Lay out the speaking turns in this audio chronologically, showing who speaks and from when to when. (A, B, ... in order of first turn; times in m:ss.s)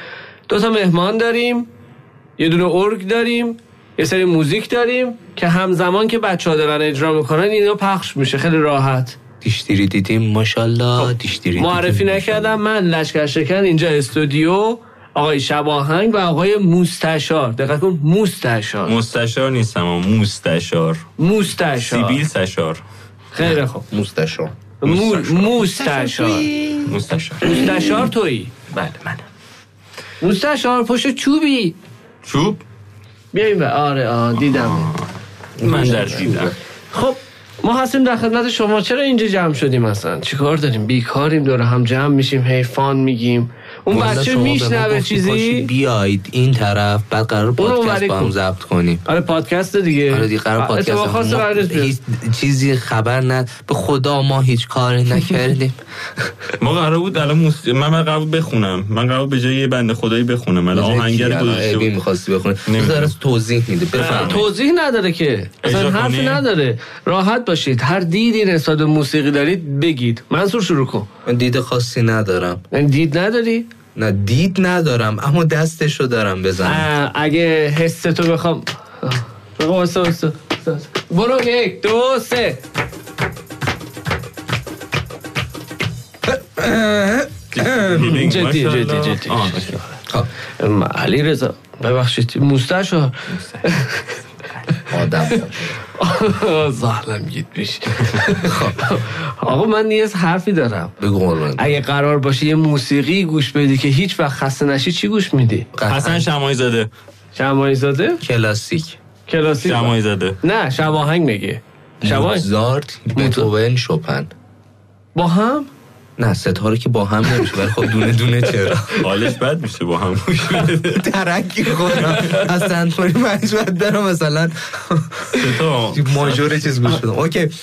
0:00.5-0:01.7 A
0:02.4-0:09.2 A
0:09.4-0:12.6 B
0:11.6-0:19.0 A
0:18.8-0:21.0 C
0:21.2-0:22.2 A
0:21.8-0:22.8 C
0:23.3-0:23.8 A
0:23.8-0:24.5 B
0:24.8-0:26.5 A
0:24.8-0:25.7 C
0:25.8-0:26.9 B
0:26.8-0:27.7 C
0:27.4-0:28.5 A
0:28.7-0:29.2 C
0:30.2-0:31.8 A
0:32.2-0:32.6 C
0:33.3-0:34.9 A
0:34.3-0:35.1 C
0:35.6-0:36.4 B
0:35.6-0:36.5 C
0:35.6-0:45.7 A
0:43.9-0:49.0 B
0:47.6-0:48.3 A
0:49.0-0:51.9 A
0:50.1-0:56.3 B
0:56.6-1:01.9 C
1:00.7-1:04.5 B
1:02.7-1:03.1 C
1:03.9-1:04.5 C
1:04.0-1:11.1 A
1:05.6-1:06.4 C
1:11.2-1:12.6 B
1:12.7-1:13.7 A
1:13.9-1:16.9 B
1:16.6-1:22.6 A
1:26.3-1:28.1 B
1:27.5-1:29.8 C
1:27.9-1:29.8 A
1:30.6-1:34.2 A
1:33.3-1:33.7 C
1:34.5-1:34.8 C
1:34.9-1:35.7 B
1:35.8-1:40.9 A
1:38.4-1:38.9 B
1:41.0-1:41.8 B
1:41.6-1:45.7 A
1:45.7-1:46.3 B
1:45.8-1:46.9 C
1:47.4-1:48.2 A
1:48.2-1:49.0 B
1:49.3-1:52.5 A
1:49.6-1:50.4 C
1:52.0-1:54.3 B
1:53.1-1:53.5 A
1:55.2-1:55.7 A
1:56.2-1:58.9 B
1:57.3-1:57.8 A
1:58.7-1:59.2 A
1:58.9-2:01.1 C
2:01.0-2:07.5 B
2:01.8-2:02.5 C
2:02.0-2:02.4 A
2:05.3-2:06.7 C